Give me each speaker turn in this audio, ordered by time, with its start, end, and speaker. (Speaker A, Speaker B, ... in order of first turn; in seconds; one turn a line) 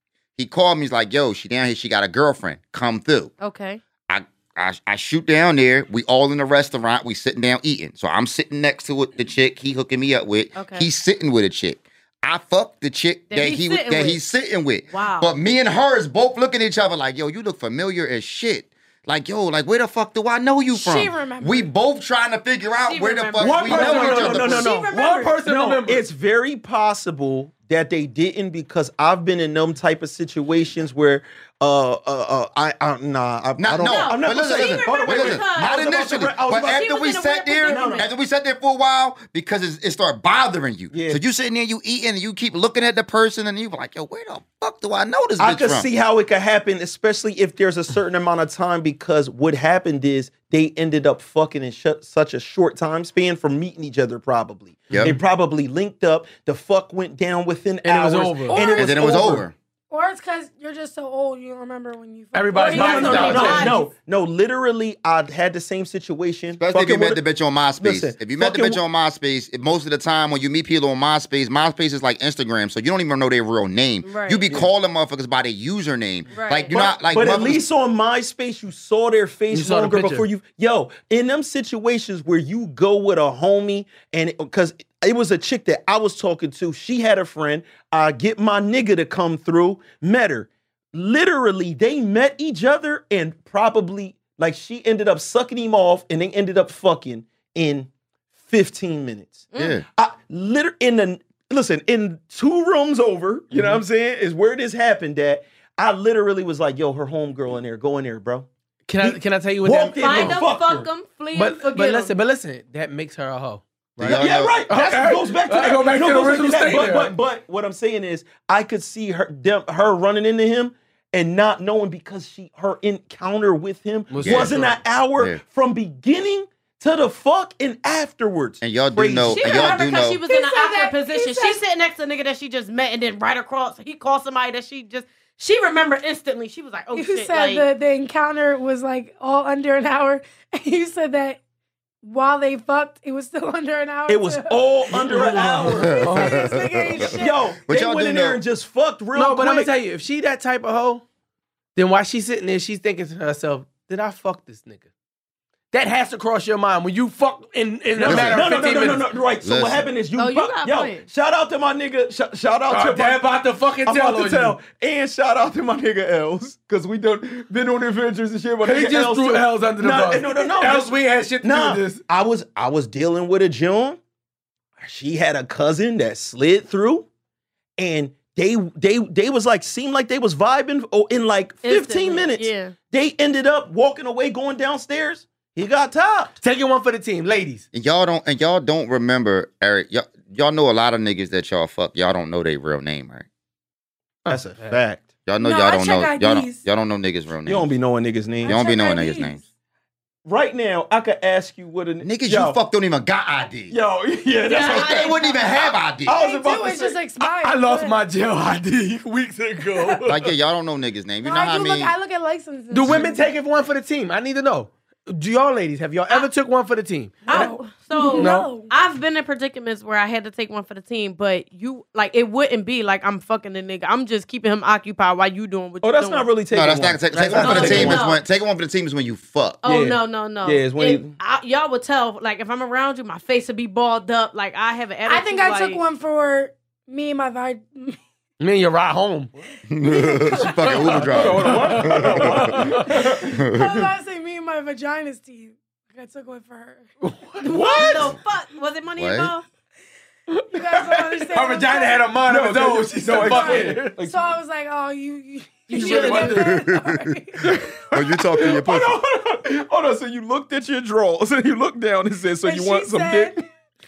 Speaker A: 0.3-3.3
Speaker B: 3.4-3.8
Speaker A: 4.1-24.8
Speaker B: 10.5-10.9
Speaker B: 13.3-14.2
Speaker B: 14.9-15.3
Speaker C: 20.7-21.7
Speaker B: 22.8-25.4
Speaker D: 23.4-36.9
Speaker E: 23.6-26.0
Speaker A: 33.6-45.9
Speaker B: 33.8-38.1
Speaker D: 37.6-38.1
Speaker D: 40.9-41.2
Speaker D: 45.4-59.5
Speaker E: 54.9-55.2
Speaker A: 54.9-55.1
Speaker E: 57.8-58.6
Speaker C: 58.5-59.3
Speaker A: 58.6-59.5
Speaker C: 59.9-63.8
Speaker E: 62.3-63.8
Speaker B: 62.5-63.9
Speaker D: 62.6-67.2
Speaker A: 66.6-77.6
Speaker D: 67.8-68.8
Speaker B: 74.0-74.4
Speaker B: 76.3-76.7
Speaker D: 76.7-97.9
Speaker E: 79.5-80.3
Speaker D: 98.4-108.5
Speaker B: 99.5-99.8
Speaker A: 99.5-99.8
Speaker E: 103.5-103.8
Speaker E: 108.9-110.4
Speaker D: 109.0-110.9
Speaker B: 110.0-112.1
Speaker E: 111.3-117.1
Speaker A: 114.0-114.6
Speaker D: 114.0-129.8
Speaker E: 124.1-124.8
Speaker A: 124.2-125.4
Speaker A: 128.6-130.2
Speaker B: 129.3-137.7
Speaker C: 130.2-131.6
Speaker C: 136.9-141.4
Speaker C: 142.0-147.5
Speaker D: 144.1-146.3
Speaker E: 145.0-146.6
Speaker A: 145.9-148.4
Speaker D: 147.0-149.7
Speaker E: 149.1-151.0
Speaker E: 151.8-154.9
Speaker E: 155.7-159.1
Speaker D: 158.0-163.2
Speaker A: 158.0-158.4
Speaker A: 159.4-159.9
Speaker B: 160.2-161.1
Speaker E: 162.7-164.6
Speaker D: 163.8-174.0
Speaker E: 168.6-172.0
Speaker D: 174.8-177.1
Speaker D: 177.8-186.3
Speaker B: 181.6-182.7
Speaker E: 186.4-187.6
Speaker A: 187.7-193.2
Speaker E: 194.2-194.8
Speaker D: 194.3-195.1
Speaker A: 195.3-197.7
Speaker C: 195.4-196.6
Speaker D: 197.4-198.6
Speaker C: 198.4-199.4
Speaker A: 198.4-199.4
Speaker D: 200.2-202.6
Speaker A: 202.0-203.7
Speaker D: 203.7-205.2
Speaker B: 204.4-205.5
Speaker A: 204.6-206.2
Speaker D: 206.0-207.0
Speaker C: 206.1-208.0
Speaker E: 207.2-210.3
Speaker A: 210.0-211.9
Speaker C: 211.2-213.3
Speaker E: 212.7-217.5
Speaker C: 217.2-218.7
Speaker B: 217.3-226.3
Speaker E: 218.2-218.5
Speaker D: 225.8-228.1
Speaker A: 226.5-229.6
Speaker B: 227.4-228.2
Speaker E: 227.6-227.8
Speaker B: 229.6-235.8
Speaker D: 229.7-231.1
Speaker C: 235.1-238.0
Speaker E: 238.4-239.3
Speaker A: 239.7-242.7
Speaker C: 240.1-240.5
Speaker E: 240.3-243.2
Speaker D: 241.1-243.8
Speaker C: 242.9-246.8
Speaker A: 243.3-243.8
Speaker E: 247.0-248.1
Speaker B: 247.4-249.4
Speaker A: 249.0-249.3
Speaker E: 250.3-253.9
Speaker C: 250.5-252.2
Speaker D: 252.2-254.3
Speaker C: 253.1-257.5
Speaker B: 255.7-256.4
Speaker E: 255.7-256.6
Speaker A: 256.4-259.0
Speaker D: 257.5-263.4
Speaker C: 262.4-263.4